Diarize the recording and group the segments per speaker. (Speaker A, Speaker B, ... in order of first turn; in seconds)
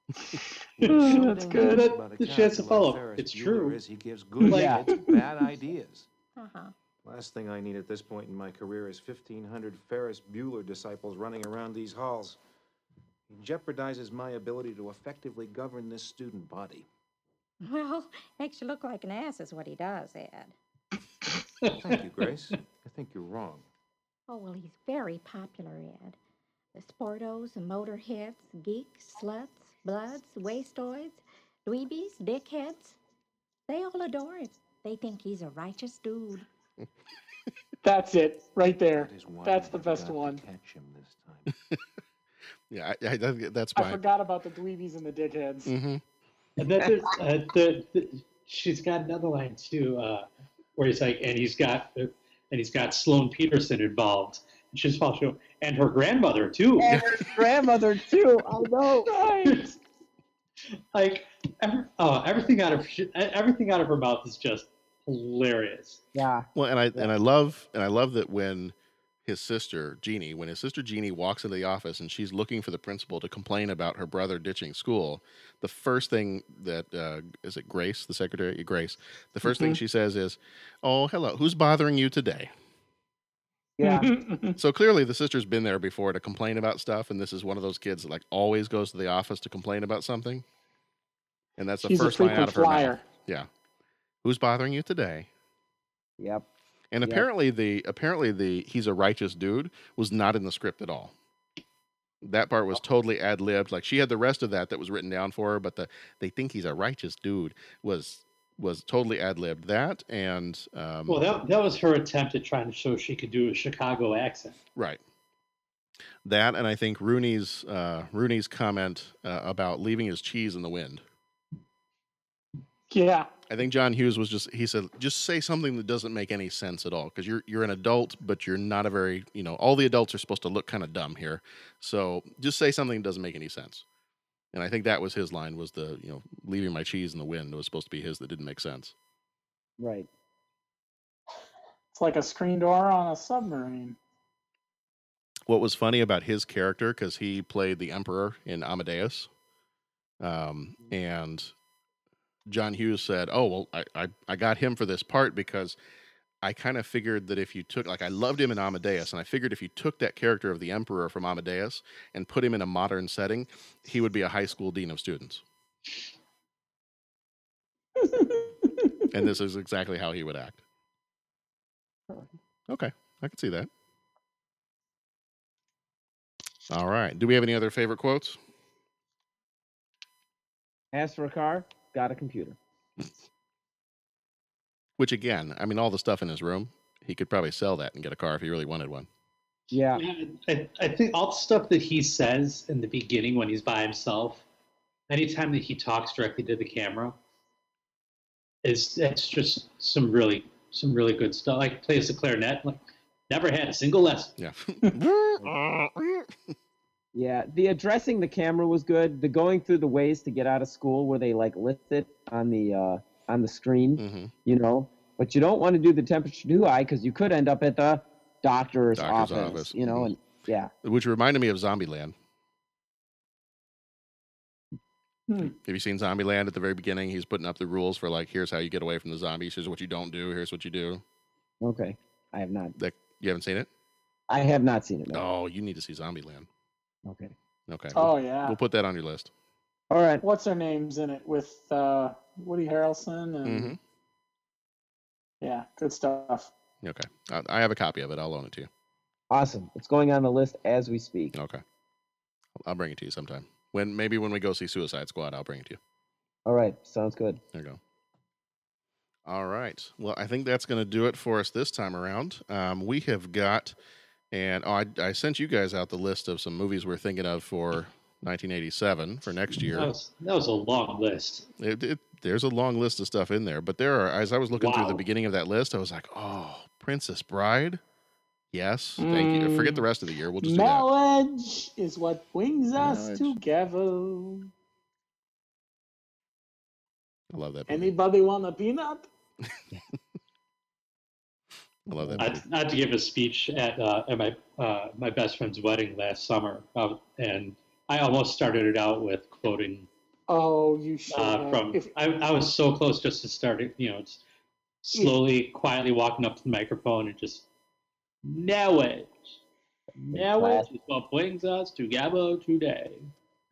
Speaker A: 0.2-1.9, 4.4-5.2, 37.8-40.4, 43.8-45.7, 59.1-59.8, 79.5-79.8, 83.8-84.6, 91.8-93.0, 122.9-123.3, 141.9-144.0, 168.0-169.0, 225.3-225.5, 237.9-238.6, 240.2-243.8, 245.4-246.5, 279.0-279.9, 280.4-284.5, 287.7-289.1, 300.3-301.9
Speaker B: 0.8-6.1, 7.0-12.4, 13.3-16.9, 21.7-23.7, 38.9-41.5
Speaker C: 1.5-3.8, 4.5-4.7, 46.6-56.9, 60.9-66.0, 111.1-114.6, 190.0-194.4, 195.1-197.2, 198.6-204.3, 269.7-271.5, 274.6-275.0, 292.2-299.9, 301.1-304.2, 304.8-307.5, 308.2-309.1, 310.1-313.1
Speaker D: 4.5-4.8, 56.8-59.1, 66.2-67.1, 83.8-84.1, 96.2-96.5, 139.8-140.1, 180.9-182.6, 189.7-190.0, 207.2-220.7, 231.6-232.7, 234.3-235.2, 237.1-237.3, 239.9-240.2, 249.3-251.3, 256.5-257.4, 310.0-310.7
Speaker E: 6.4-6.7, 17.6-20.5, 24.3-26.2, 26.8-33.0, 33.7-36.5
Speaker F: 42.7-44.0, 45.7-46.0, 66.5-82.5, 84.6-90.5, 91.6-93.5, 94.2-95.3, 96.9-101.1, 102.2-111.2, 114.8-115.0, 116.2-121.0, 123.5-133.8, 134.5-138.9, 145.5-149.3, 150.2-151.5, 152.5-155.8, 156.4-165.4, 169.1-170.6, 172.7-173.7, 176.7-178.4, 185.0-189.1, 204.4-206.5, 214.0-214.3, 219.0-220.1, 220.8-222.2, 225.4-231.0, 232.8-233.7, 235.1-236.5, 237.7-239.3, 243.4-243.8, 246.8-248.7, 251.3-251.6, 252.6-255.8, 257.5-257.8, 259.3-263.8, 264.3-269.9, 271.6-277.8, 278.5-280.9, 282.8-283.4, 287.3-287.9, 291.9-292.4